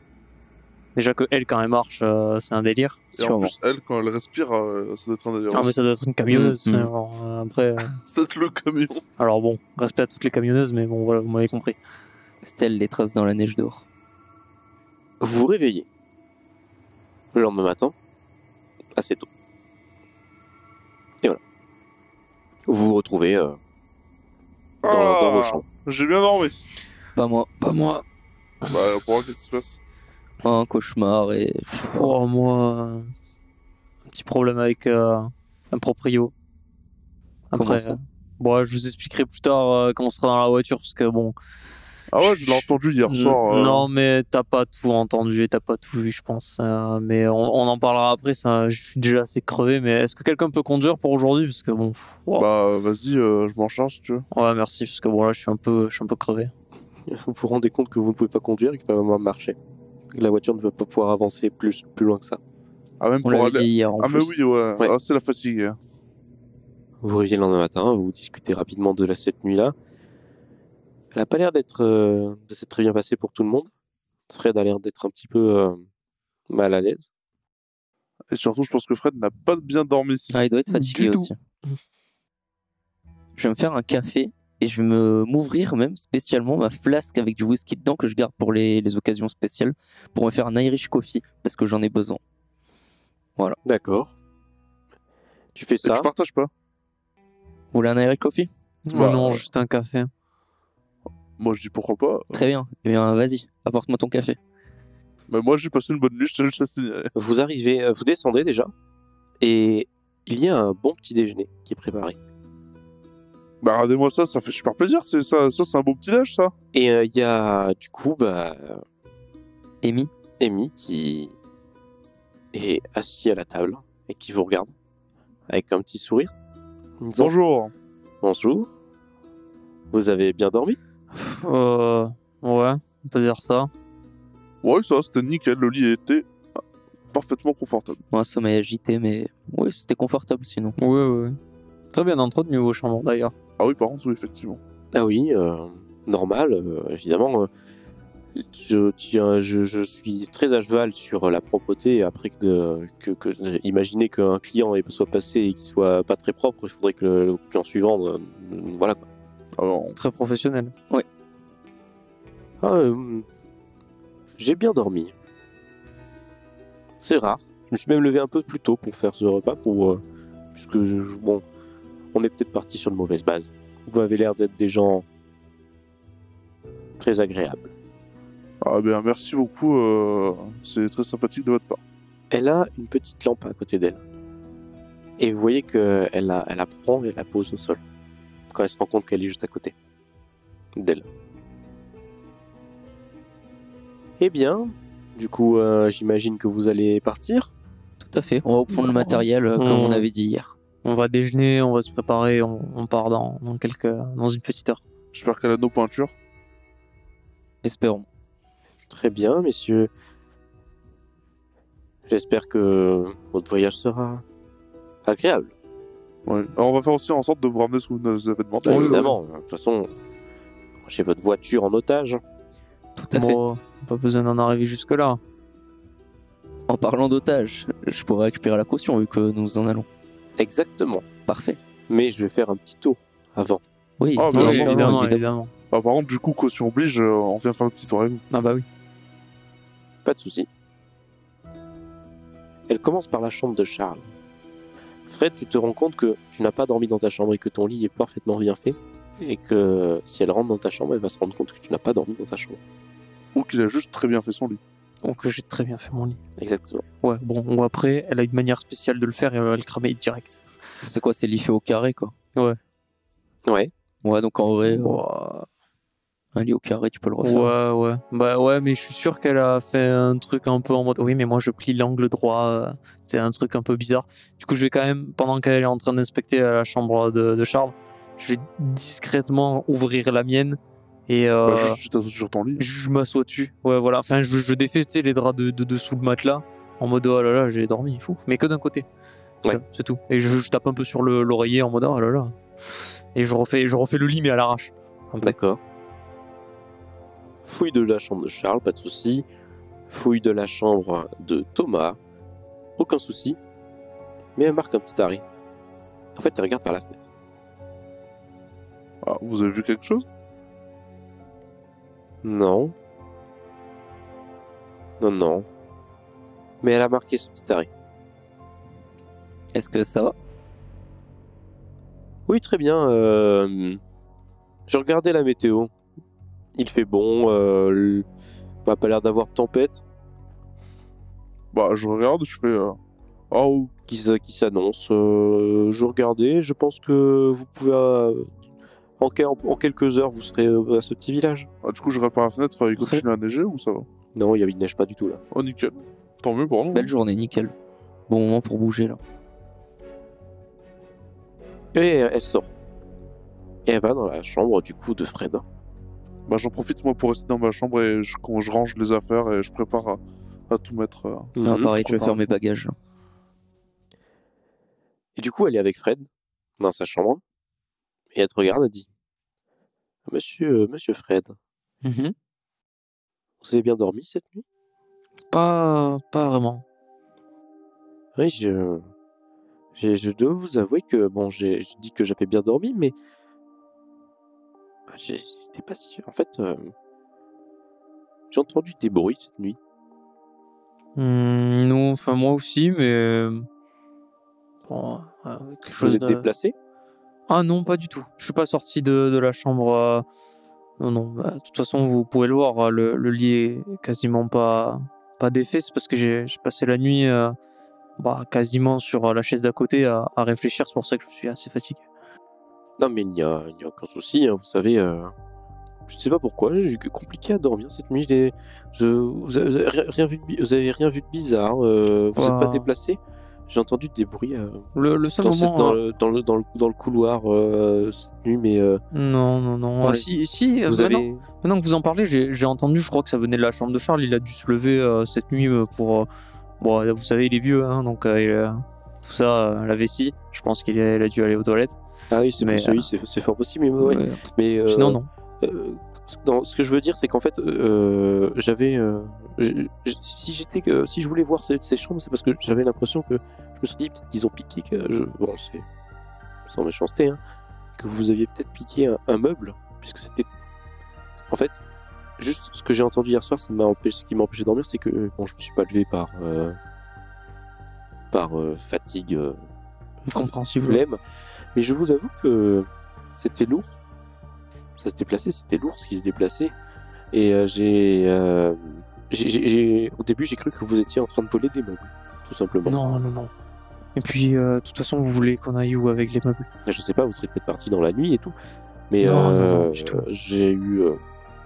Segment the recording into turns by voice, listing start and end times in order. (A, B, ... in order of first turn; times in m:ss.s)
0:01.0-0:03.1 A
0:03.2-0:03.5 B
0:03.2-0:05.7 C
0:05.5-0:08.0 A
0:06.3-0:06.9 B
0:08.0-0:09.0 C
0:09.2-0:11.8 A
0:12.4-0:13.8 B
0:15.2-0:15.9 D
0:17.3-0:18.0 D
0:18.9-0:19.3 D
0:22.7-0:23.6 D
0:24.8-0:26.6 C
0:24.8-0:25.7 D
0:27.2-0:27.8 B
0:27.6-0:28.0 A
0:28.7-0:29.8 C
0:30.4-0:32.1 B
0:31.7-0:33.1 A
0:34.1-0:36.3 A
0:37.5-0:41.4 A
0:37.5-0:38.0 B
0:42.1-0:43.9 C
0:42.2-0:52.5 A
0:52.4-0:54.3 C
0:54.3-0:56.5 A
0:57.1-0:59.6 D
1:00.1-1:02.4 D
1:03.0-1:05.8 C
1:03.2-1:04.4 B
1:07.0-1:09.8 D
1:11.1-1:13.7 D
1:14.3-1:15.8 D
1:16.5-1:17.1 D
1:18.3-1:20.3 C
1:20.3-1:21.4 B
1:20.7-1:21.3 A
1:23.4-1:32.2 B
1:33.6-1:34.1 D
1:35.6-1:36.1 D
1:35.8-1:36.5 C
1:37.7-1:38.5 B
1:38.9-1:40.1 A
1:38.9-1:39.4 C
1:41.4-1:42.4 C
1:42.3-1:44.4 B
1:45.3-1:47.1 C
1:47.2-1:48.7 D
1:49.4-1:52.2 D
1:53.6-1:56.5 C
1:56.7-1:58.8 D
1:59.8-2:00.1 B
2:00.4-2:01.3 D
2:02.5-2:04.7 D
2:05.5-2:06.3 D
2:07.0-2:07.3 D
2:07.2-2:07.7 C
2:08.2-2:08.7 D
2:09.9-2:10.8 D
2:11.1-2:13.7 A
2:14.6-2:16.3 C
2:17.1-2:18.0 C
2:18.1-2:20.8 B
2:20.8-2:21.4 A
2:21.9-2:23.3 A
2:23.6-2:24.6 C
2:24.9-2:27.5 D
2:28.4-2:39.1 D
2:39.6-2:40.0 C
2:39.9-2:40.7 A
2:42.6-2:43.3 D
2:44.4-2:45.1 D
2:47.0-2:50.0 D
2:50.6-2:51.4 D
2:52.1-2:55.0 D
2:57.0-2:57.7 D
2:58.6-3:01.8 C
3:02.3-3:04.0 D
3:05.2-3:07.8 D
3:08.5-3:09.8 D
3:10.8-3:11.1 D
3:14.2-3:17.5 D
3:18.0-3:20.5 B
3:18.7-3:20.1 A
3:20.8-3:24.8 A
3:25.1-3:26.1 C
3:27.6-3:28.1 B
3:28.9-3:29.9 D
3:32.1-3:34.2 D
3:35.0-3:35.5 D
3:36.3-3:39.1 C
3:38.6-3:39.9 D
3:38.7-3:39.2 A
3:40.8-3:42.2 D
3:43.0-3:43.4 B
3:43.1-3:45.2 A
3:46.7-3:49.9 B
3:50.4-3:51.1 D
3:51.3-3:51.6 B
3:51.9-3:53.6 D
3:54.0-3:55.2 B
3:54.2-3:55.0 C
3:54.3-3:55.5 A
3:55.7-3:58.2 C
3:58.3-3:58.6 A
4:00.0-4:00.5 D
4:02.7-4:04.1 D
4:05.1-4:12.6 D
4:13.3-4:14.6 C
4:15.0-4:16.2 A
4:16.4-4:16.8 D
4:17.0-4:20.4 A
4:20.8-4:22.1 B
4:23.5-4:23.7 D
4:24.0-4:25.0 B
4:24.7-4:25.5 A
4:26.3-4:27.6 B
4:27.2-4:41.8 A
4:41.5-4:42.6 C
4:42.6-4:48.9 A
4:49.5-4:52.4 A
4:53.1-4:55.4 A
4:55.2-4:55.6 D
4:57.4-4:59.2 D
4:59.9-5:02.0 D
5:02.8-5:03.4 D
5:04.4-5:05.2 D
5:06.2-5:07.0 D
5:09.0-5:10.0 C
5:12.2-5:12.7 D
5:15.0-5:15.5 D
5:16.6-5:17.7 D
5:19.5-5:20.2 B
5:22.3-5:23.8 D
5:24.7-5:25.7 D
5:26.6-5:28.1 D
5:28.6-5:29.8 D
5:31.5-5:32.8 C
5:33.3-5:33.7 C
5:33.9-5:38.3 D
5:39.0-5:41.5 D
5:41.6-5:43.9 C
5:44.1-5:45.2 D
5:45.3-5:46.9 C
5:46.7-5:47.5 B
5:48.1-5:49.0 B
5:51.7-5:52.5 D
5:53.7-5:55.4 D
5:56.3-6:02.2 C
6:01.4-6:01.7 D
6:01.4-6:02.7 B
6:05.2-6:07.2 D
6:08.1-6:08.9 D
6:10.1-6:11.4 D
6:11.8-6:12.2 A
6:13.4-6:14.4 D
6:15.3-6:16.6 A
6:18.2-6:18.8 D
6:19.8-6:23.0 D
6:24.9-6:26.7 D
6:28.3-6:29.6 D
6:31.0-6:33.5 A
6:34.7-6:36.3 A
6:35.8-6:36.6 D
6:37.3-6:40.0 A
6:40.8-6:47.4 A
6:48.0-6:51.8 A
6:52.8-6:55.1 D
6:55.9-7:04.7 D
7:02.2-7:02.7 A
7:04.8-7:05.8 A
7:05.2-7:08.8 D
7:08.9-7:16.1 A
7:09.8-7:10.2 D
7:10.7-7:11.2 D
7:16.6-7:21.8 A
7:22.1-7:35.7 D
7:22.4-7:22.9 A
7:23.8-7:25.1 A
7:36.5-7:37.2 D
7:37.8-7:40.3 D
7:41.3-7:41.6 D
7:42.2-7:46.6 D
7:48.1-7:49.4 D
7:50.1-7:50.8 A
7:50.6-7:51.0 D
7:51.5-7:53.7 D
7:54.8-7:56.5 D
7:57.1-8:02.8 D
8:02.6-8:03.3 A
8:04.0-8:06.5 A
8:06.7-8:08.4 D
8:08.9-8:11.0 D
8:09.0-8:10.1 A